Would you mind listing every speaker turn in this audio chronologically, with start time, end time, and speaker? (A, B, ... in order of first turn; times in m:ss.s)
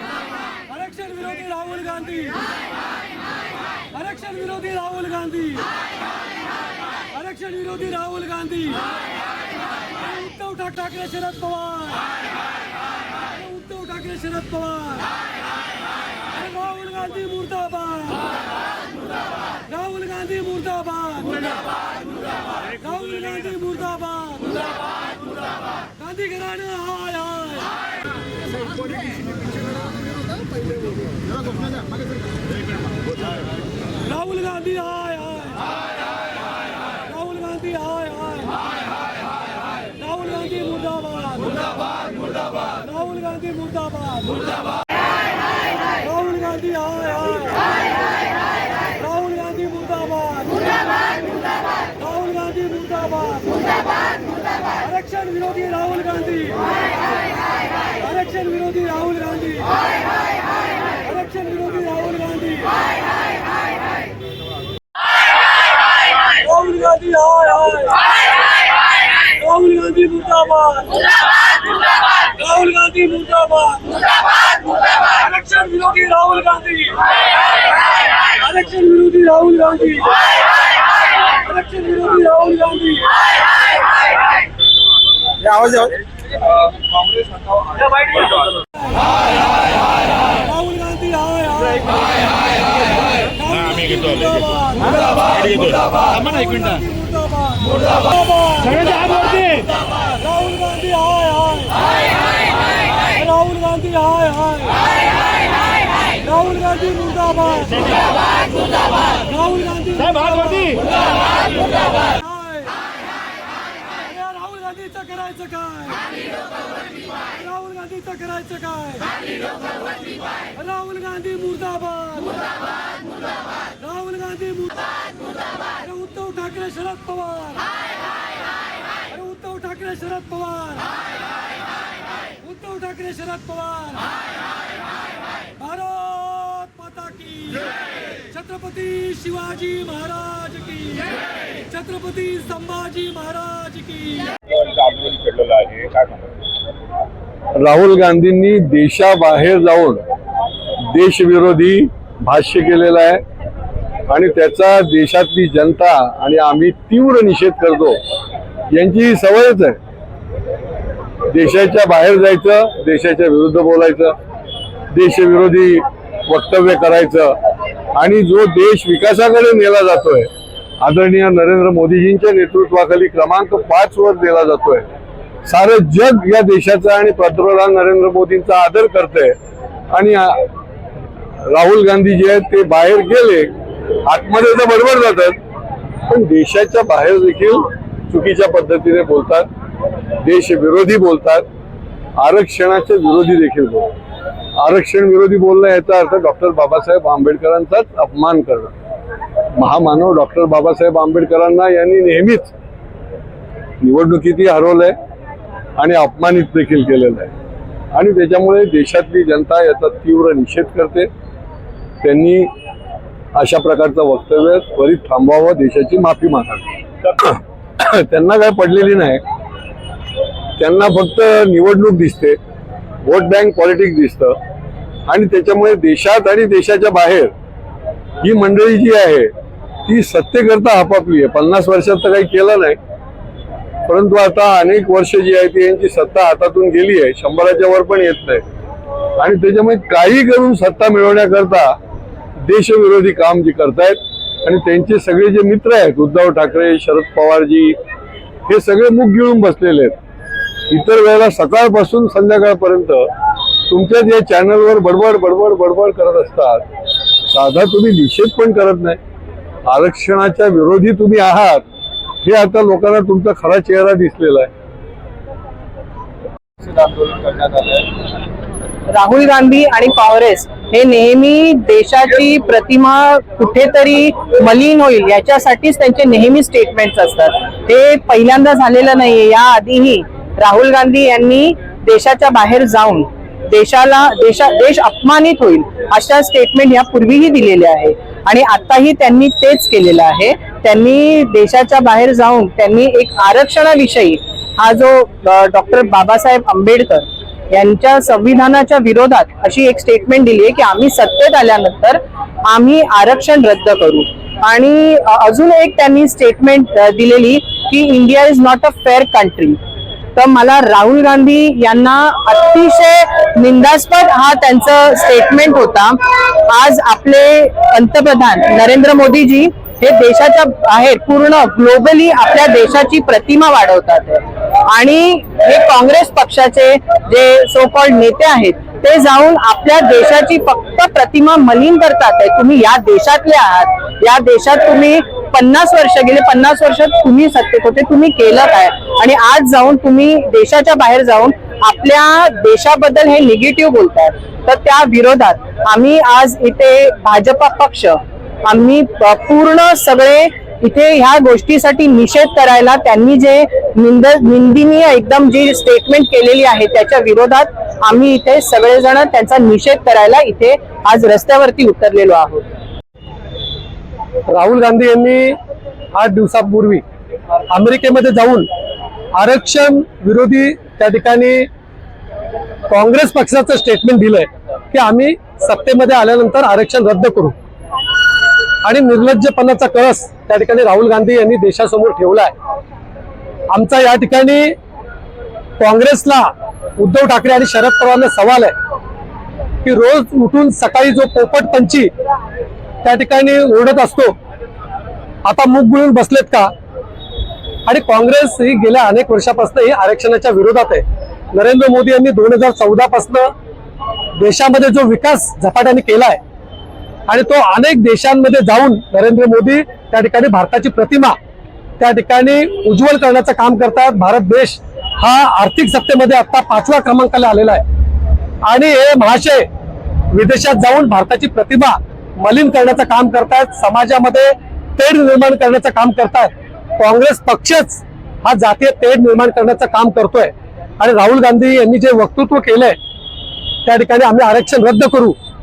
0:00.8-0:02.4 A
0:04.0-0:05.7 A
0:07.2-0:08.9 A
0:10.0-0:12.0 A
0:13.4-0:15.1 A
0:16.3-0:18.2 A
0:19.7-0:21.5 A
0:22.7-0:24.6 A
0:26.0-0:27.7 A
0:34.1-0:35.6 A
0:37.2-0:38.5 A
0:40.0-0:41.6 A
0:42.8-0:44.4 A
0:46.1-0:47.6 A
0:49.1-0:50.7 A
0:52.1-0:53.6 A
0:54.9-0:56.6 A
0:58.0-0:59.7 A
1:01.2-1:02.7 A
1:06.4-1:07.4 B
1:07.0-1:08.1 A
1:09.4-1:10.6 B
1:10.2-1:11.1 A
1:12.4-1:13.6 B
1:13.5-1:14.1 A
1:14.8-1:17.0 A
1:16.0-1:16.3 B
1:18.4-1:18.8 A
1:18.8-1:19.6 B
1:19.6-1:20.2 A
1:21.6-1:23.1 A
1:22.0-1:22.6 B
1:30.6-1:31.9 A
1:33.4-1:39.7 A
1:40.2-1:41.7 A
1:43.2-1:44.7 A
1:46.5-1:47.9 A
1:49.6-1:50.9 A
1:54.2-1:56.1 A
1:58.3-1:59.2 A
2:00.5-2:02.4 A
2:03.9-2:05.0 A
2:05.7-2:07.7 A
2:09.2-2:10.9 A
2:12.5-2:14.1 A
2:15.6-2:17.7 A
2:18.2-2:21.1 A
2:21.6-2:24.4 A
2:27.6-2:30.0 C
2:30.8-2:33.2 C
2:34.1-2:38.0 C
2:38.7-2:39.8 C
2:41.3-2:44.1 C
2:44.9-2:47.4 C
2:48.0-2:50.3 C
2:50.8-2:54.8 C
2:55.5-2:59.4 C
2:59.9-3:00.4 C
3:01.4-3:05.4 C
3:06.1-3:09.5 C
3:10.2-3:11.4 C
3:12.2-3:13.9 C
3:14.6-3:18.7 C
3:19.6-3:22.5 C
3:23.8-3:24.9 C
3:25.8-3:27.3 C
3:27.9-3:31.1 C
3:32.0-3:32.5 C
3:33.4-3:39.2 C
3:40.6-3:42.4 C
3:43.0-3:44.4 C
3:45.1-3:47.3 C
3:48.2-3:49.3 C
3:49.8-3:52.8 C
3:53.9-3:58.4 C
3:59.2-4:01.8 C
4:02.4-4:07.8 C
4:08.5-4:10.0 C
4:10.7-4:13.1 C
4:13.7-4:16.6 C
4:17.3-4:19.0 C
4:19.7-4:21.6 C
4:22.2-4:24.5 C
4:26.8-4:27.8 C
4:28.9-5:09.6 D
5:10.1-6:02.4 D
6:04.3-6:05.4 B
6:06.0-6:06.8 B
6:07.5-6:08.5 B
6:09.2-6:11.5 B
6:12.7-6:17.3 B
6:18.6-6:22.3 B
6:23.5-6:24.5 B
6:25.6-6:28.5 B
6:29.6-6:31.9 B
6:32.8-6:34.1 B
6:35.2-6:36.5 B
6:37.6-6:40.8 B
6:41.3-6:43.3 B
6:44.2-6:46.2 B
6:47.1-6:51.1 B
6:51.8-6:57.6 B
6:58.5-6:59.4 B
7:00.1-7:12.7 B
7:13.6-7:15.1 B